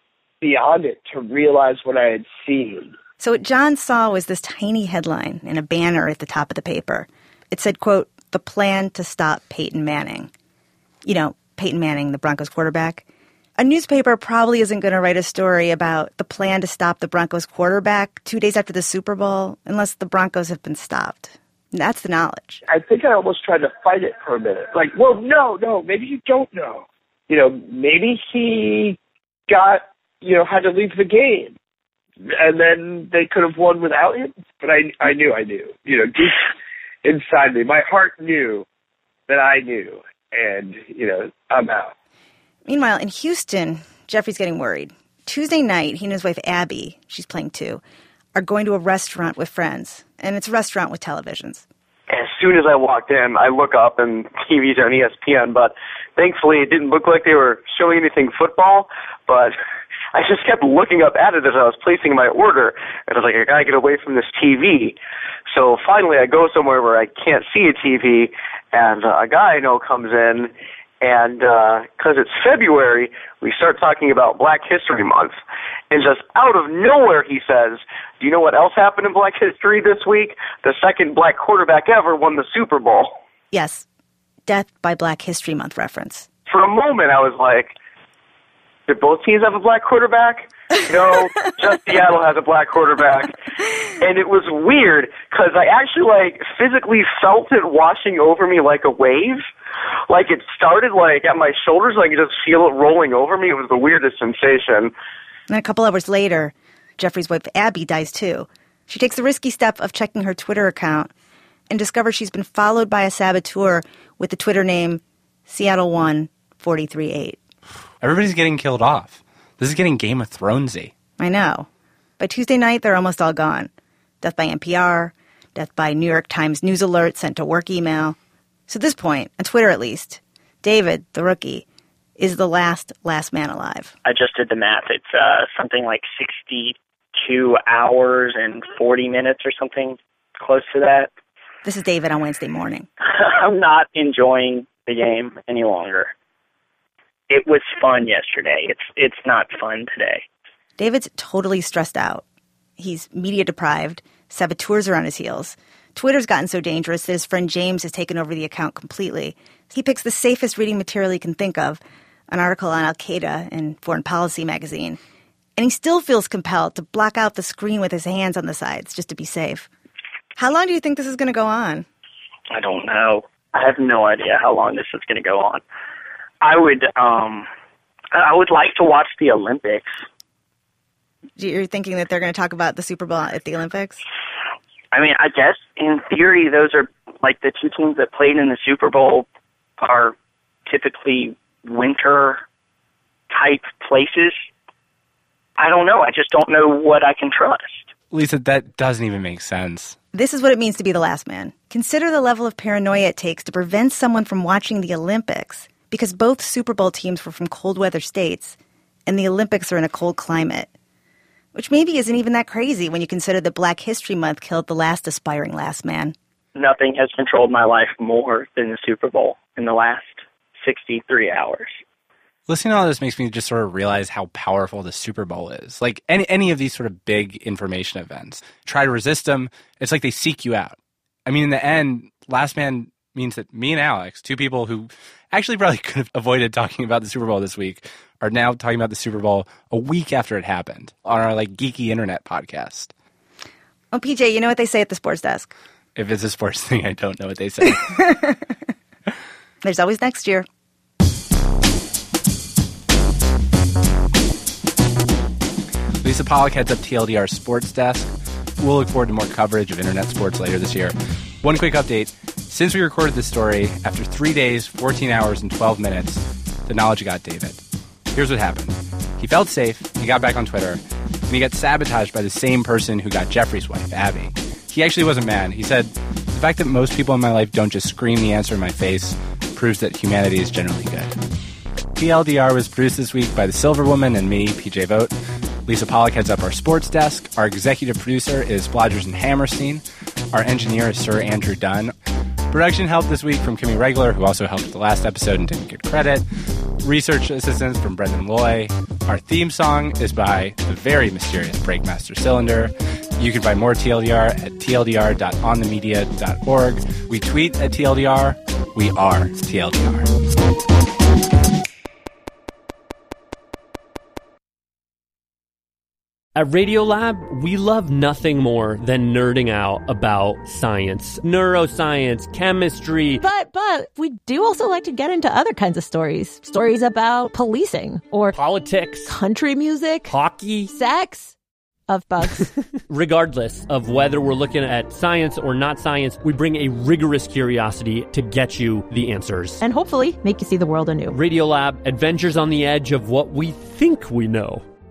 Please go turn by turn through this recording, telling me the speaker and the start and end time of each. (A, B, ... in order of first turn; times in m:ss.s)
0:00.4-0:02.9 A
0:03.2-0:10.3 B
0:11.0-0:13.0 B
0:13.6-0:22.6 B
0:22.7-0:29.0 A
0:29.5-0:31.6 A
0:32.2-0:36.4 A
0:37.0-0:38.6 A
0:39.3-0:41.9 A
0:42.6-0:47.8 B
0:48.3-0:51.6 B
0:52.1-0:59.5 C
1:00.1-1:05.0 C
1:05.5-1:15.4 C
1:15.9-1:23.1 C
1:23.5-1:23.8 B
1:24.5-1:26.3 B
1:26.5-1:27.7 C
1:28.9-1:33.4 C
1:34.0-1:39.4 C
1:40.1-1:44.9 C
1:45.5-1:51.1 B
1:51.7-1:57.4 B
1:58.0-2:00.9 D
2:01.2-2:01.7 B
2:02.2-2:03.7 B
2:04.2-2:08.2 B
2:08.7-2:11.6 B
2:12.2-2:13.9 B
2:14.0-2:21.1 E
2:21.6-2:22.9 B
2:23.0-2:26.1 E
2:27.3-2:30.2 E
2:30.8-2:32.2 B
2:32.8-2:45.0 B
2:45.6-2:49.7 B
2:50.4-2:51.9 B
2:52.5-2:55.6 E
2:56.4-2:57.5 E
2:58.1-2:59.9 E
3:01.4-3:04.0 B
3:04.9-3:09.3 E
3:09.8-3:10.1 E
3:10.7-3:12.4 E
3:13.3-3:14.4 E
3:15.6-3:17.9 E
3:18.1-3:20.0 D
3:20.1-3:30.7 B
3:31.5-3:36.1 B
3:36.5-3:41.7 E
3:42.5-4:02.9 D
4:03.9-4:05.5 B
4:06.0-4:08.1 D
4:09.6-4:10.4 B
4:16.0-4:27.6 D
4:28.1-4:41.1 D
4:42.0-4:45.1 D
4:45.6-4:51.9 D
4:52.5-4:56.2 D
4:56.8-5:10.1 D
5:16.4-5:23.2 F
5:23.2-5:28.4 G
5:28.3-5:29.1 F
5:29.0-5:30.2 G
5:30.1-5:30.7 F
5:30.7-5:31.3 G
5:31.9-5:32.7 G
5:32.3-5:39.6 F
5:39.6-5:41.2 G
5:41.1-5:44.6 F